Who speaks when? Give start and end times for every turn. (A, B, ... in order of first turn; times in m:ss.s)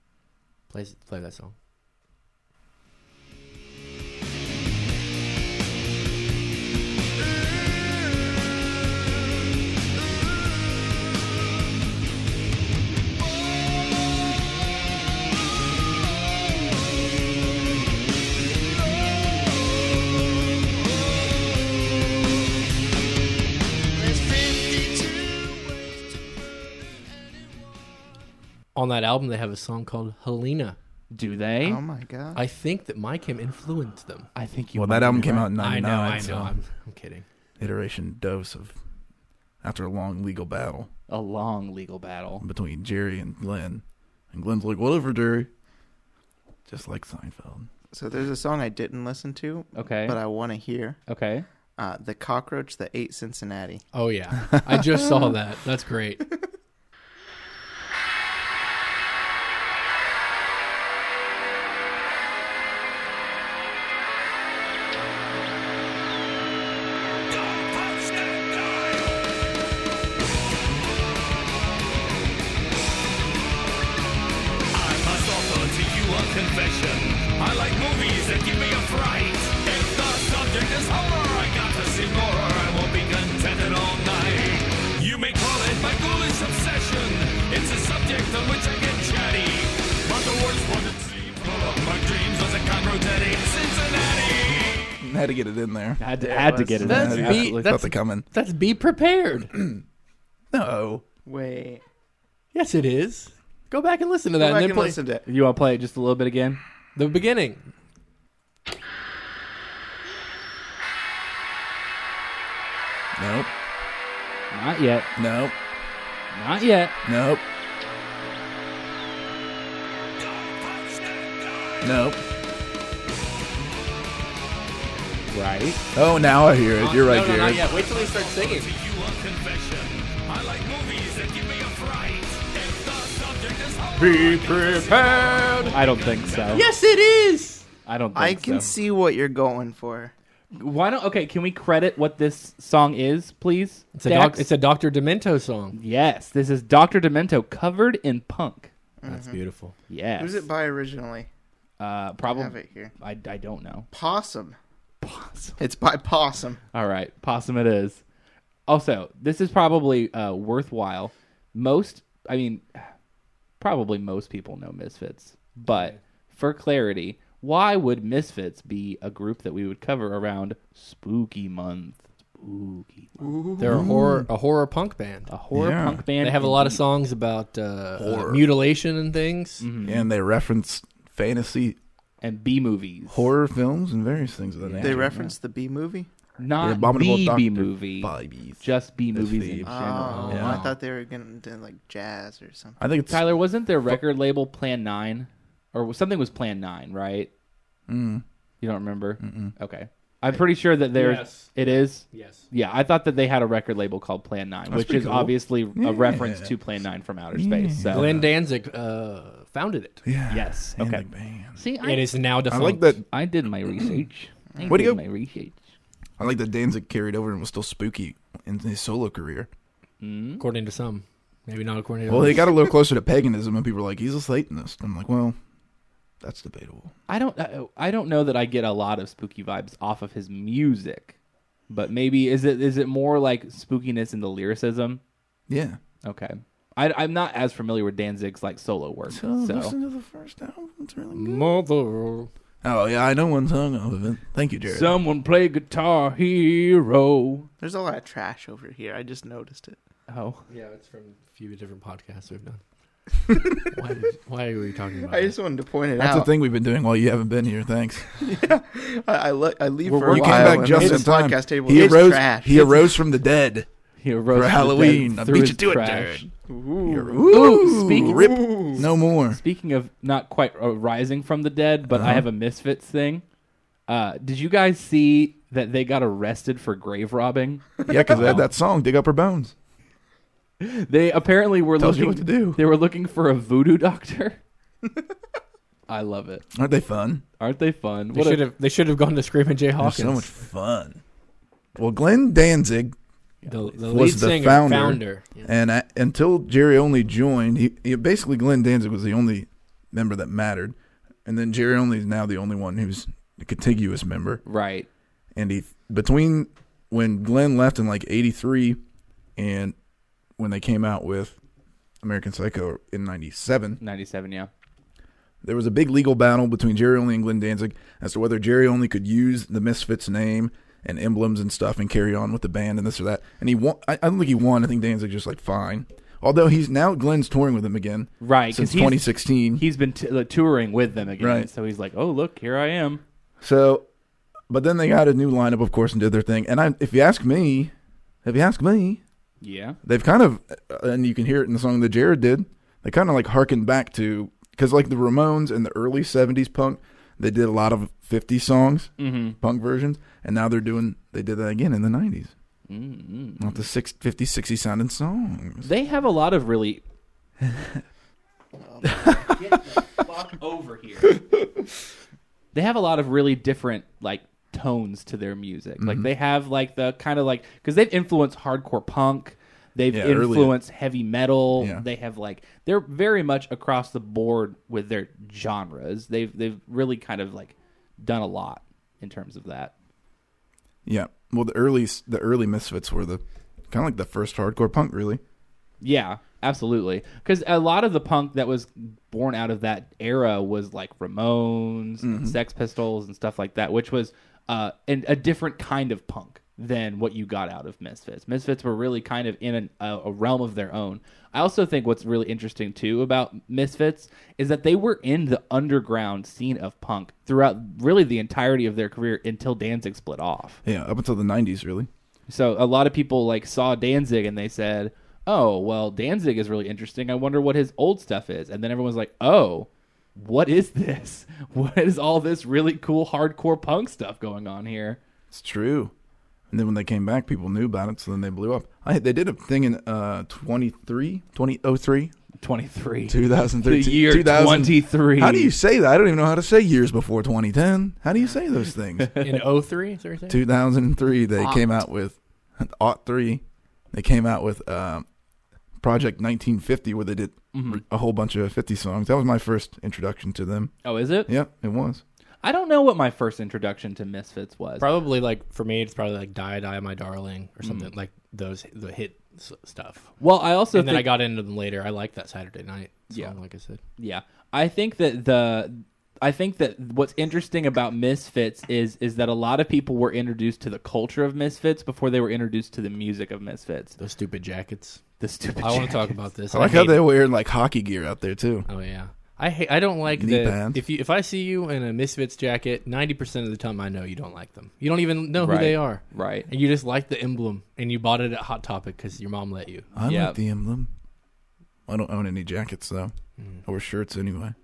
0:00.7-0:01.5 A
0:28.8-0:30.8 A
0:31.1-0:31.8 B
0:31.6-0:32.4 C
0:32.4-0:34.3 A
0:34.4-0:35.5 B
0:34.7-0:36.5 D
0:35.6-0:37.2 A
0:37.6-0:38.8 D
0:39.6-0:40.9 D
0:41.1-0:42.5 B
0:42.4-0:45.5 D
0:46.7-0:47.7 D
0:47.9-0:51.0 C
0:49.8-0:50.2 B
0:51.1-0:51.5 B
0:51.8-0:53.8 C
0:53.9-0:56.2 A
1:07.3-1:09.2 E
1:14.7-1:35.0 E
1:35.0-1:36.0 D
1:36.0-1:37.7 B
1:36.2-1:37.0 C
1:36.8-1:38.3 D
1:36.8-1:39.5 A
1:39.5-1:39.8 D
1:40.5-1:41.0 D
1:41.3-1:41.8 C
1:42.5-1:45.0 A
1:44.4-1:45.2 C
1:45.3-1:46.6 B
1:47.0-1:47.7 A
1:53.2-1:53.5 D
1:54.5-1:55.1 B
1:55.2-1:55.6 D
1:56.3-1:57.0 B
1:57.0-1:57.4 D
2:00.2-2:01.9 E
2:01.8-2:02.2 D
2:05.3-2:05.8 B
2:06.0-2:07.6 D
2:06.8-2:08.7 A
2:07.5-2:16.7 E
2:14.0-2:15.8 A
2:15.7-2:16.6 B
2:16.5-2:17.6 A
2:17.9-2:18.7 B
2:18.2-2:20.1 C
2:20.5-2:24.5 B
2:24.0-2:25.8 A
2:25.7-2:28.7 B
2:29.0-2:29.4 C
2:29.1-2:29.7 A
2:29.9-2:30.5 B
2:30.2-2:31.3 C
2:31.8-2:33.9 B
2:32.2-2:32.9 C
2:33.9-2:34.6 C
2:35.0-2:35.6 B
2:35.6-2:36.6 C
2:36.7-2:38.0 B
2:38.7-2:42.9 B
2:43.6-2:53.3 B
2:45.7-2:46.0 A
2:53.2-2:53.9 C
2:53.6-2:55.3 A
2:53.6-2:54.3 D
2:55.3-2:56.8 B
2:55.5-2:56.0 D
2:56.2-2:59.6 A
2:58.0-2:58.5 D
2:59.6-3:00.1 B
2:59.8-3:01.8 D
3:02.2-3:03.3 B
3:03.1-3:05.3 D
3:04.6-3:05.1 B
3:04.8-3:06.1 C
3:06.4-3:10.7 B
3:06.6-3:10.6 D
3:09.6-3:12.8 C
3:10.1-3:10.7 A
3:12.8-3:13.2 D
3:13.1-3:17.3 B
3:17.9-3:18.2 D
3:18.6-3:28.1 B
3:19.2-3:19.5 D
3:21.0-3:22.4 A
3:24.7-3:26.5 D
3:27.3-3:28.3 D
3:27.9-3:30.0 A
3:30.0-3:31.6 D
3:30.3-3:32.2 B
3:31.8-3:33.0 A
3:32.5-3:33.0 D
3:33.1-3:35.6 B
3:34.6-3:34.8 C
3:34.6-3:35.0 D
3:36.2-3:39.5 D
3:40.0-3:40.4 B
3:40.4-3:42.5 A
3:42.1-3:45.4 D
3:46.2-3:46.9 D
3:47.1-3:51.2 B
3:51.7-3:55.0 B
3:55.5-3:55.8 D
3:56.0-3:59.7 B
3:59.1-4:01.5 D
4:01.1-4:02.3 A
4:02.6-4:05.0 D
4:04.7-4:07.5 B
4:07.6-4:09.8 C
4:10.1-4:10.4 B
4:10.5-4:12.6 A
4:13.7-4:15.4 A
4:15.1-4:16.3 C
4:16.0-4:18.1 D
4:18.2-4:23.0 C
4:19.8-4:20.9 B
4:20.1-4:23.7 D
4:24.0-4:26.3 B
4:24.3-4:26.3 D
4:26.5-4:28.8 C
4:26.8-4:29.4 D
4:27.3-4:33.2 B
4:31.9-4:32.3 D
4:33.9-4:38.4 B
4:37.9-4:39.5 D
4:40.6-4:44.4 B
4:41.8-4:42.6 D
4:45.9-4:46.5 B
4:46.5-4:47.2 D
4:47.4-4:48.4 B
4:48.1-4:50.3 A
4:49.8-4:51.0 D
4:51.8-4:53.0 D
4:53.4-4:53.7 B
4:53.5-4:55.5 A
4:53.8-5:04.4 D
5:04.4-5:04.9 B
5:05.4-5:08.8 D
5:09.4-5:09.8 D
5:10.4-5:11.4 D
5:12.0-5:13.8 D
5:13.8-5:14.5 B
5:15.4-5:29.6 D
5:28.2-5:33.0 B
5:31.2-5:31.5 D
5:33.4-5:33.8 D
5:34.5-5:37.7 D
5:38.2-5:39.0 D
5:39.4-5:39.8 B
5:39.8-5:52.3 D
5:49.0-5:49.4 B
5:52.7-5:53.6 B
5:53.4-5:55.7 D
5:55.6-5:56.8 B
5:57.4-5:57.8 D
5:58.6-5:59.3 C
5:59.3-6:01.2 B
6:02.5-6:19.7 B
6:05.8-6:06.1 D
6:09.9-6:10.6 D
6:11.6-6:11.8 D
6:20.9-6:25.2 D
6:25.8-6:50.6 B
6:32.0-6:32.4 D
6:50.6-6:51.9 D
6:52.3-7:05.0 B
7:05.3-7:05.9 D
7:06.5-7:12.1 D
7:12.4-7:15.5 B
7:13.1-7:19.1 D
7:19.0-7:19.4 B
7:19.2-7:20.4 A
7:20.3-7:25.1 D
7:25.8-7:30.7 D
7:27.5-7:27.8 B
7:30.8-7:31.3 B
7:31.2-7:32.0 D
7:32.4-7:34.9 B
7:34.8-7:40.1 A
7:37.6-7:37.9 B
7:40.2-7:41.1 B
7:40.7-7:43.8 A
7:43.1-7:43.4 B
7:44.0-7:54.0 B
7:54.0-7:55.0 A
7:55.2-7:56.2 B
7:55.6-7:57.0 A
7:56.5-7:58.7 D
7:58.7-8:09.9 A
8:00.1-8:00.8 D
8:05.4-8:06.5 B
8:09.9-8:10.9 D
8:10.0-8:10.4 B
8:11.9-8:13.1 D
8:13.4-8:13.6 A
8:13.6-8:14.6 D